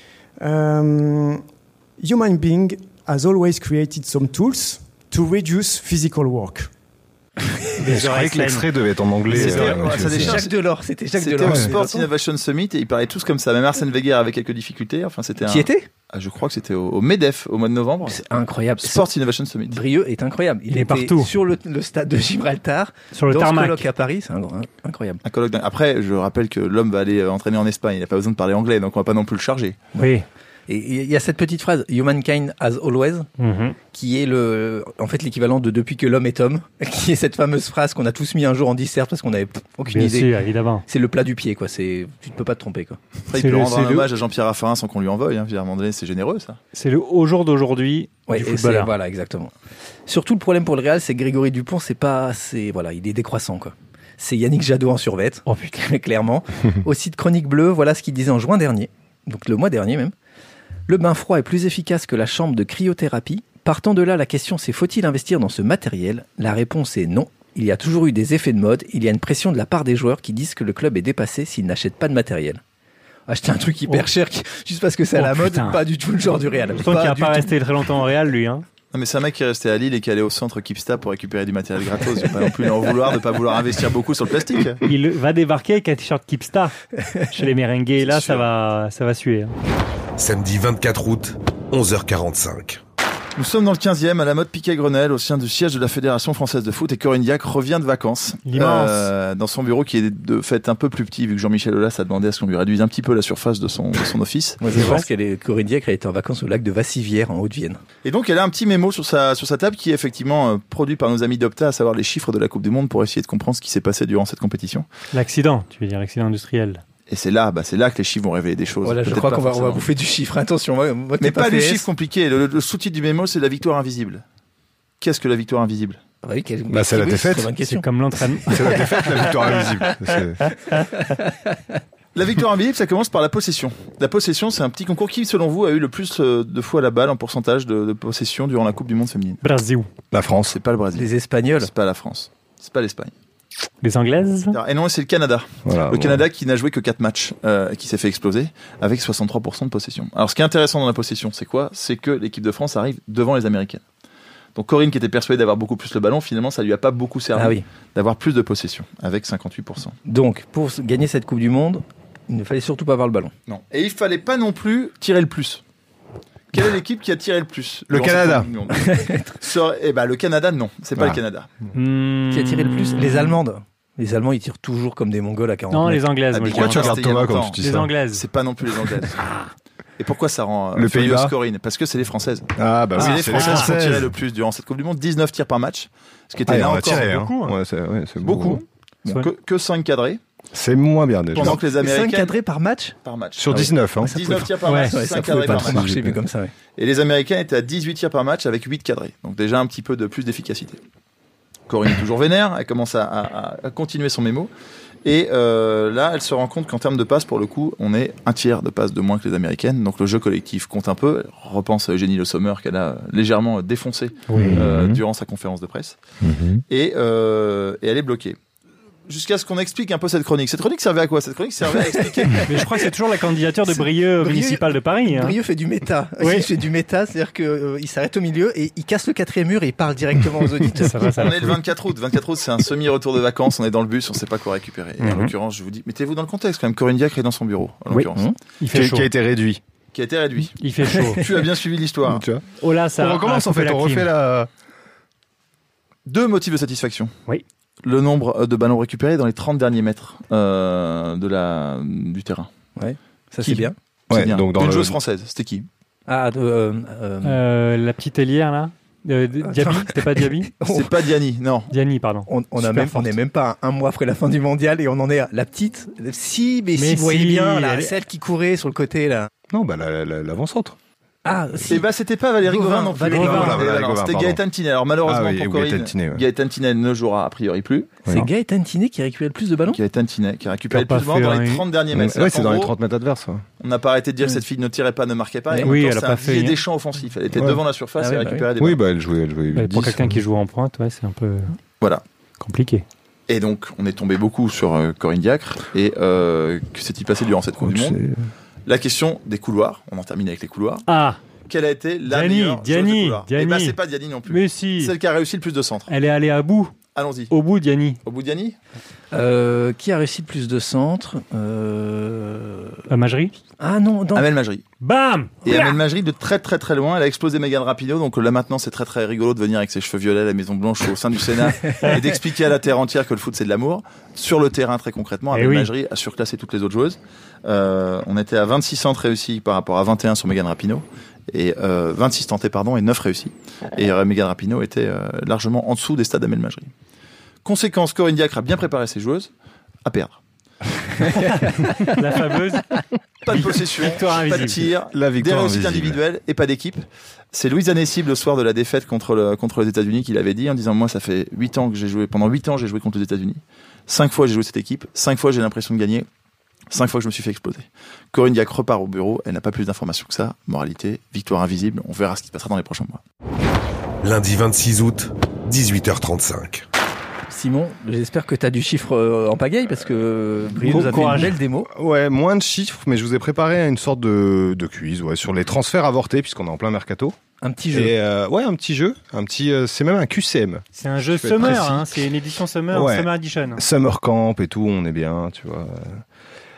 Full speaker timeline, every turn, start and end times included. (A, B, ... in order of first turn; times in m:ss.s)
0:00.4-0:01.4 A
0:02.0-0:06.7 A
0:07.8-0:08.7 B
0:07.8-0:10.4 C
0:09.3-0:10.6 D
0:09.4-0:12.1 E
0:11.2-0:18.2 D
0:11.4-0:11.7 C
0:15.4-0:15.9 E
0:18.0-0:19.0 E
0:18.8-0:19.8 D
0:19.7-0:25.2 E
0:20.7-0:21.3 B
0:23.1-0:23.9 B
0:25.2-0:29.8 D
0:30.0-0:30.2 B
0:30.7-0:33.3 E
0:33.4-0:33.8 B
0:33.9-0:40.3 E
0:39.9-0:40.8 B
0:40.9-0:43.0 E
0:43.3-0:46.6 D
0:43.3-0:44.1 B
0:46.7-0:48.9 B
0:48.3-0:49.5 E
0:50.1-1:00.1 E
0:55.5-0:55.7 B
1:00.9-1:12.6 E
1:13.3-1:17.5 E
1:15.2-1:15.8 B
1:16.8-1:18.6 B
1:18.9-1:24.8 D
1:24.8-1:26.8 B
1:27.3-1:29.5 B
1:28.0-1:28.4 D
1:30.2-1:32.8 F
1:33.4-1:44.6 D
1:38.4-1:39.1 B
1:44.6-1:47.8 E
1:44.7-1:45.0 B
1:48.0-1:54.9 D
1:55.1-1:56.8 B
1:57.1-1:59.9 D
1:58.8-2:01.8 E
2:01.2-2:04.2 D
2:05.0-2:06.0 D
2:06.2-2:07.8 E
2:06.7-2:07.5 C
2:07.6-2:08.9 B
2:08.4-2:10.4 C
2:08.5-2:10.1 E
2:10.7-2:11.8 E
2:12.1-2:19.4 D
2:19.4-2:19.9 B
2:20.1-2:20.6 C
2:20.5-2:23.1 D
2:20.9-2:21.7 E
2:23.8-2:24.6 B
2:24.5-2:33.8 D
2:25.6-2:26.2 C
2:34.5-2:40.0 D
2:37.4-2:37.6 E
2:40.0-2:43.3 E
2:43.5-2:45.6 D
2:46.5-2:51.5 D
2:47.9-2:48.5 C
2:48.8-2:49.3 E
2:51.7-2:53.4 B
2:52.3-2:56.0 E
2:55.7-2:58.2 B
2:56.3-2:59.2 D
2:56.5-2:57.9 C
2:59.2-2:59.5 B
3:00.0-3:07.2 D
3:00.7-3:01.3 C
3:02.6-3:04.1 C
3:03.0-3:03.7 B
3:06.4-3:08.6 C
3:06.7-3:07.5 B
3:08.2-3:10.2 D
3:10.5-3:11.6 C
3:11.3-3:12.4 D
3:11.4-3:13.0 E
3:13.0-3:15.9 D
3:13.4-3:14.2 C
3:13.5-3:16.5 E
3:14.6-3:14.9 B
3:15.3-3:16.2 C
3:16.8-3:20.8 D
3:21.7-3:24.5 D
3:25.0-3:36.0 D
3:34.3-3:34.6 B
3:34.4-3:35.0 C
3:36.2-3:36.6 C
3:36.7-3:38.4 D
3:39.1-3:42.5 D
3:42.4-3:45.4 B
3:43.7-3:51.1 E
3:46.2-3:46.5 B
3:50.8-3:51.6 B
3:51.1-3:58.3 D
3:55.0-3:55.3 B
3:57.9-3:59.1 B
3:58.7-3:59.6 C
3:59.9-4:02.2 D
4:00.6-4:01.2 B
4:02.0-4:04.5 C
4:02.6-4:04.1 B
4:06.0-4:07.1 D
4:07.8-4:12.5 D
4:12.8-4:13.7 E
4:13.4-4:15.7 D
4:14.1-4:15.0 C
4:16.1-4:17.4 E
4:17.2-4:20.5 B
4:19.4-4:20.9 E
4:20.6-4:21.7 D
4:21.7-4:23.1 B
4:22.3-4:29.3 E
4:26.8-4:28.0 B
4:29.5-4:30.8 C
4:31.2-4:31.9 E
4:31.7-4:38.0 D
4:32.4-4:33.5 E
4:33.1-4:33.7 B
4:33.1-4:34.4 C
4:35.0-4:36.2 C
4:38.1-4:39.8 E
4:39.7-4:42.7 D
4:40.7-4:41.6 B
4:41.9-4:43.4 C
4:43.6-4:48.8 D
4:45.6-4:46.6 B
4:47.4-4:47.6 C
4:48.0-4:48.5 E
4:48.6-4:50.2 C
4:49.5-4:51.5 B
4:52.4-4:52.8 B
4:53.3-4:58.0 D
4:57.6-4:58.2 C
4:58.6-5:00.8 D
5:00.9-5:01.2 B
5:01.5-5:05.9 D
5:02.0-5:03.8 B
5:04.3-5:04.9 B
5:05.9-5:06.7 B
5:06.9-5:07.3 D
5:07.3-5:08.0 B
5:08.0-5:08.5 D
5:09.1-5:12.8 E
5:12.9-5:13.4 B
5:13.6-5:14.3 E
5:14.1-5:14.6 D
5:14.8-5:15.7 B
5:15.4-5:36.7 D
5:25.3-5:25.7 B
5:37.4-5:39.3 D
5:39.8-5:40.2 D
5:41.2-5:41.7 E
5:41.8-5:42.7 B
5:43.2-5:56.1 D
5:43.3-5:44.7 B
5:44.9-5:46.0 C
5:56.7-6:03.0 D
6:04.0-6:06.6 F
6:07.3-6:11.7 E
6:10.6-6:11.4 B
6:10.7-6:17.2 C
6:17.4-6:17.9 E
6:17.7-6:21.9 C
6:20.8-6:23.6 B
6:22.7-6:26.0 C